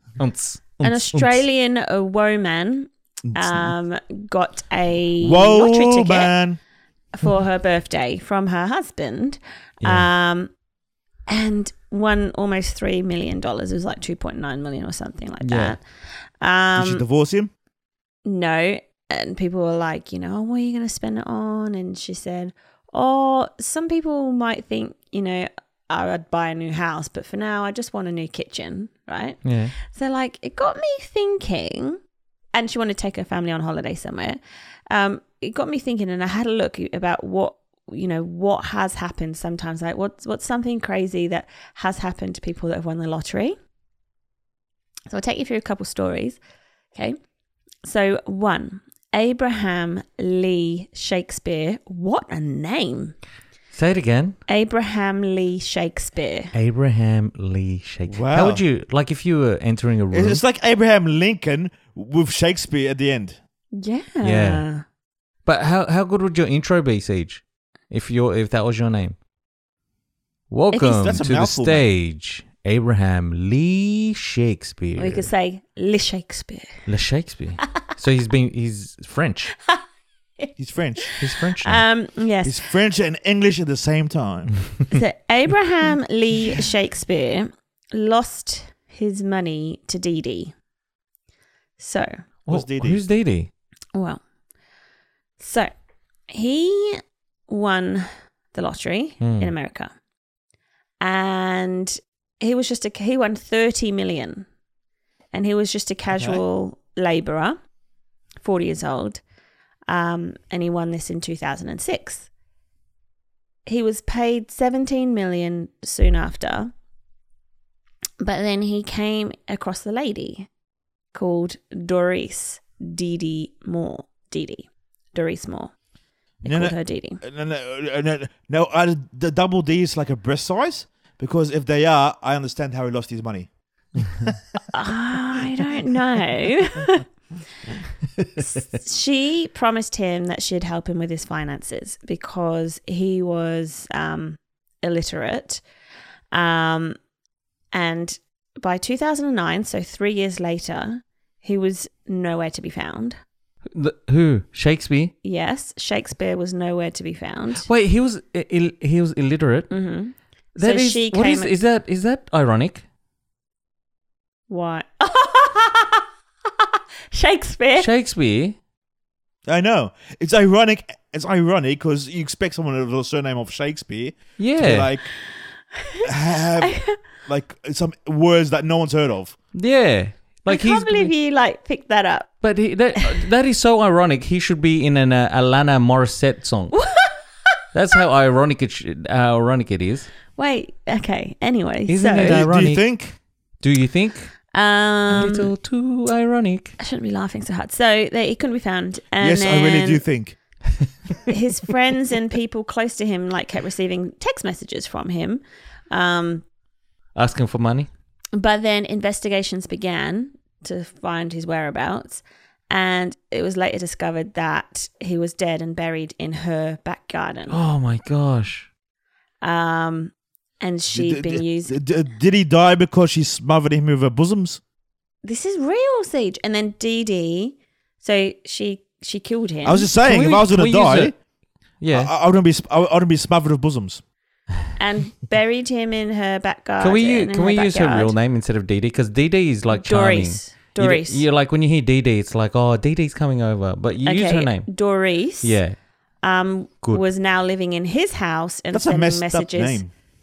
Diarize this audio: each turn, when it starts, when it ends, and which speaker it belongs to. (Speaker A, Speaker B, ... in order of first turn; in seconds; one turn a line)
Speaker A: 0.2-1.4
Speaker B: 0.8-6.3
Speaker C: 3.3-3.7
Speaker C: 5.2-6.6
Speaker B: 7.2-10.5
Speaker A: 9.8-10.1
Speaker B: 11.3-15.8
Speaker A: 15.4-15.8
Speaker B: 16.4-17.0
Speaker C: 16.8-17.5
Speaker B: 18.2-32.0
Speaker A: 29.4-29.7
Speaker B: 32.5-34.4
Speaker B: 34.9-43.6
Speaker B: 45.1-46.4
Speaker B: 47.9-53.1
Speaker A: 53.7-54.4
Speaker B: 54.5-56.5
Speaker A: 56.5-60.4
Speaker C: 58.1-58.6
Speaker C: 60.1-63.4
Speaker B: 63.7-64.8
Speaker A: 64.2-64.6
Speaker A: 65.5-69.2
Speaker A: 70.5-75.3
Speaker B: 70.7-71.1
Speaker C: 70.9-71.8
Speaker B: 75.0-76.7
Speaker A: 76.9-79.5
Speaker B: 80.4-82.6
Speaker C: 80.6-81.1
Speaker A: 81.2-81.8
Speaker C: 82.4-84.5
Speaker B: 84.9-90.5
Speaker B: 91.8-92.2
Speaker A: 92.5-93.5
Speaker C: 92.5-93.0
Speaker B: 94.0-94.2
Speaker B: 95.4-95.7
Speaker B: 96.3-99.9
Speaker A: 99.2-99.5
Speaker B: 101.0-104.5
Speaker B: 105.3-107.6
Speaker B: 108.4-109.2
Speaker B: 109.9-112.3
Speaker B: 113.7-116.7
Speaker B: 118.2-120.5
Speaker B: 121.1-125.7
Speaker B: 126.4-127.2
Speaker C: 126.4-134.4
Speaker B: 134.7-137.1
Speaker A: 138.2-138.5
Speaker B: 138.5-145.6
Speaker B: 146.3-147.0
Speaker B: 147.7-153.2
Speaker A: 153.7-155.1
Speaker B: 155.2-157.7
Speaker A: 157.7-159.7
Speaker B: 159.7-161.5
Speaker A: 160.6-162.8
Speaker B: 164.5-166.0
Speaker B: 167.1-167.9
Speaker A: 167.8-168.6
Speaker C: 169.5-175.1
Speaker A: 174.4-174.9
Speaker B: 175.8-177.0
Speaker C: 176.0-179.4
Speaker A: 179.5-181.1
Speaker B: 180.5-182.3
Speaker A: 182.4-186.8
Speaker B: 186.7-187.2
Speaker A: 187.7-190.1
Speaker B: 190.4-192.4
Speaker A: 191.9-192.9
Speaker C: 192.2-193.2
Speaker A: 193.6-194.3
Speaker B: 194.5-195.5
Speaker A: 195.1-196.8
Speaker B: 196.8-200.0
Speaker C: 199.2-200.4
Speaker B: 201.2-206.4
Speaker A: 207.2-207.9
Speaker B: 208.3-217.6
Speaker A: 217.5-218.7
Speaker B: 219.4-221.7
Speaker C: 220.9-224.6
Speaker B: 225.2-229.9
Speaker C: 229.7-231.1
Speaker A: 230.1-231.1
Speaker A: 231.8-232.1
Speaker C: 231.9-234.0
Speaker B: 234.8-238.1
Speaker A: 236.8-244.7
Speaker B: 239.7-241.2
Speaker B: 244.1-245.6
Speaker A: 245.4-245.8
Speaker B: 246.2-249.8
Speaker C: 248.7-249.9